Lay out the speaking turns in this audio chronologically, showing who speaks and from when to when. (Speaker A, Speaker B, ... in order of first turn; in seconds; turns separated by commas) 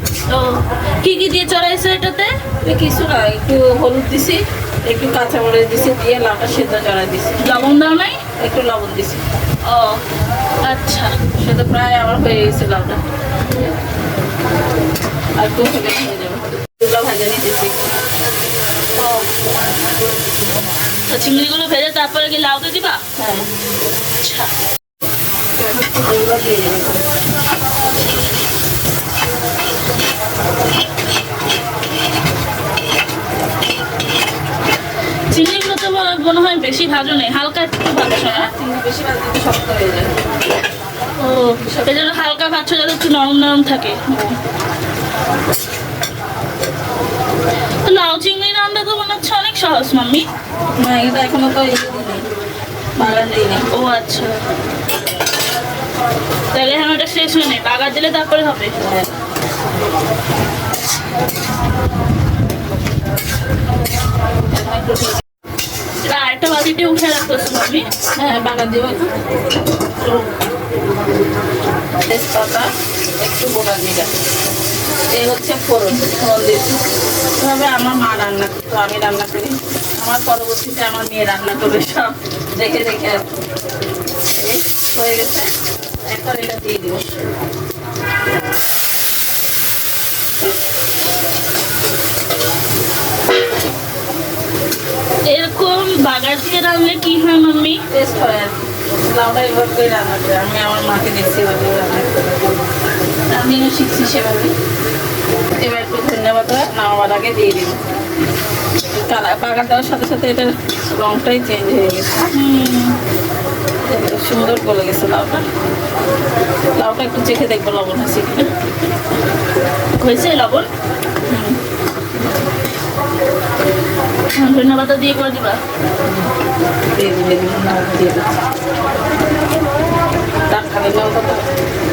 Speaker A: 0.3-2.3, Speaker B: 2.6-7.6, Speaker A: 7.4-8.2, Speaker B: 8.4-9.2, Speaker A: 9.6-10.0, Speaker A: 10.6-11.2, Speaker B: 11.3-13.0, Speaker B: 15.4-17.9, Speaker A: 19.0-19.2, Speaker A: 21.1-23.1, Speaker B: 23.2-23.5, Speaker A: 24.2-24.5, Speaker B: 25.6-27.0, Speaker A: 35.3-38.5, Speaker B: 38.2-40.2, Speaker A: 41.2-44.4, Speaker B: 41.6-41.9, Speaker A: 47.8-50.3, Speaker B: 50.8-52.3, Speaker B: 53.0-53.7, Speaker A: 53.0-54.4, Speaker A: 56.5-58.8, Speaker B: 58.8-59.2, Speaker B: 64.5-65.2, Speaker A: 66.0-67.9, Speaker B: 68.2-69.1, Speaker B: 72.0-74.1, Speaker B: 75.1-76.8, Speaker B: 77.4-83.3, Speaker B: 84.3-85.5, Speaker B: 86.0-87.2, Speaker A: 95.2-97.8, Speaker B: 97.9-102.2, Speaker B: 103.3-104.5, Speaker B: 105.6-107.8, Speaker B: 108.9-112.4, Speaker A: 112.3-113.0, Speaker B: 113.8-115.5, Speaker B: 116.8-118.5, Speaker A: 120.0-120.7, Speaker B: 121.3-121.6, Speaker A: 124.3-125.6, Speaker B: 126.9-128.3, Speaker B: 130.4-131.5